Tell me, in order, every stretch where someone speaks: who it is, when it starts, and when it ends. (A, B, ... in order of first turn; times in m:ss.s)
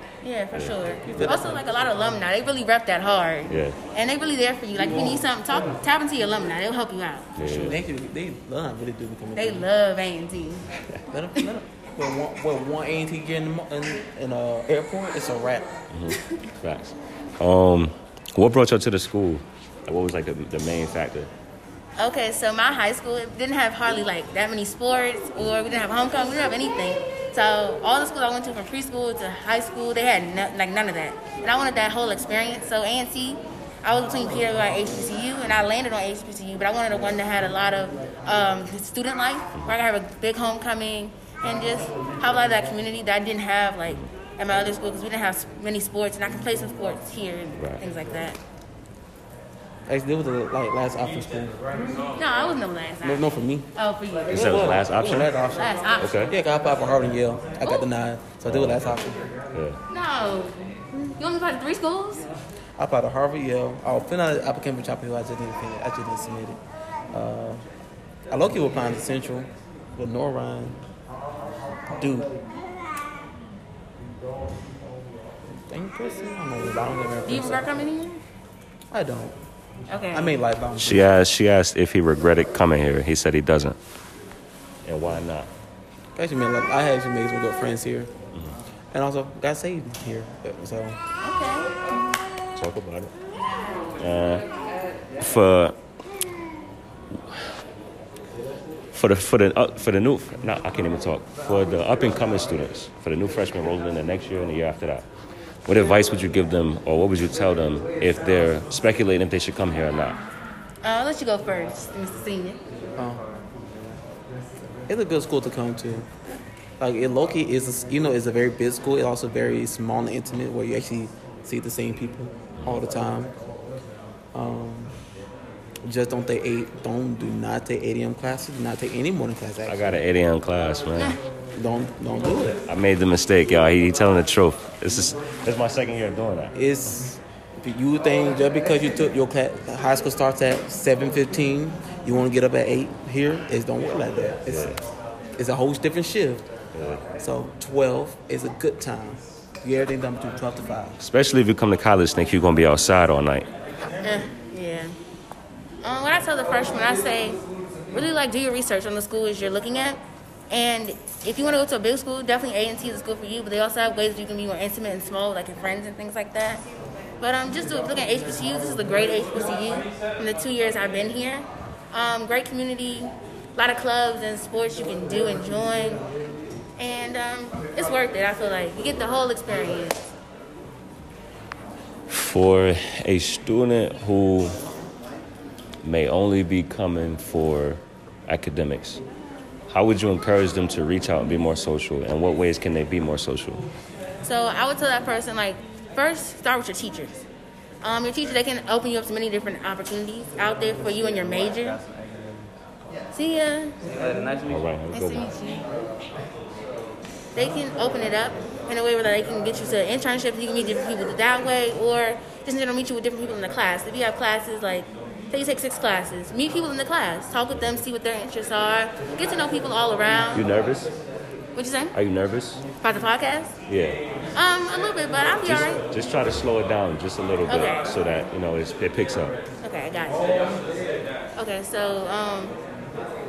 0:00.2-0:07.3 A
0:00.5-0:01.3 B
0:01.0-0:01.6 C
0:03.5-0:03.8 B
0:04.8-0:05.2 C
0:07.4-0:07.8 B
0:07.4-0:09.7 C
0:09.4-0:10.7 A
0:11.1-0:15.7 C
0:15.9-0:21.3 B
0:22.0-0:48.4 A
0:47.6-0:47.8 B
0:49.9-0:51.6 C
0:52.2-0:54.7 A
0:53.0-0:53.7 C
0:54.3-0:55.3 B
0:54.3-0:59.2 C
0:55.5-0:56.3 A
0:56.0-0:56.3 B
0:58.4-0:59.0 B
0:59.5-0:59.8 B
0:59.9-1:02.3 A
1:02.8-1:06.6 C
1:07.1-1:07.6 C
1:08.3-1:10.8 C
1:12.0-1:12.3 C
1:15.7-1:17.7 C
1:17.2-1:18.2 A
1:18.9-1:19.4 C
1:19.9-1:20.4 A
1:20.1-1:21.1 C
1:20.8-1:23.8 B
1:24.8-1:25.5 B
1:26.2-1:28.1 C
1:28.9-1:31.0 C
1:32.6-1:33.1 B
1:34.0-1:34.4 B
1:35.2-1:35.8 B
1:38.9-1:45.0 B
1:45.7-1:50.2 B
1:50.8-1:52.6 A
1:53.0-1:53.2 C
1:54.9-1:56.1 C
1:56.8-2:03.3 C
2:04.3-2:05.0 C
2:05.8-2:10.0 C
2:09.7-2:11.2 B
2:11.6-2:12.6 C
2:12.7-2:16.5 B
2:16.6-2:24.8 C
2:24.5-2:24.8 B
2:25.4-2:26.5 C
2:26.7-2:27.0 B
2:27.2-2:31.0 C
2:31.0-2:33.5 B
2:34.0-2:34.9 A
2:35.8-2:37.4 A
2:37.9-2:46.6 A
2:47.2-2:56.0 A
2:56.8-3:00.1 A
3:02.1-3:04.6 B
3:05.8-3:09.0 B
3:09.7-3:13.6 B
3:14.2-3:17.2 A
3:17.8-3:21.8 A
3:23.1-3:23.8 A
3:24.5-3:25.3 B
3:24.9-3:25.6 A
3:27.4-3:40.5 A
3:40.3-3:40.9 B
3:41.6-3:42.0 A
3:41.9-3:42.6 B
3:42.8-3:43.6 A
3:43.7-3:44.0 B
3:44.3-3:45.8 A
3:45.4-3:49.4 B
3:47.5-3:47.9 A
3:49.6-3:50.5 A
3:51.4-3:52.6 A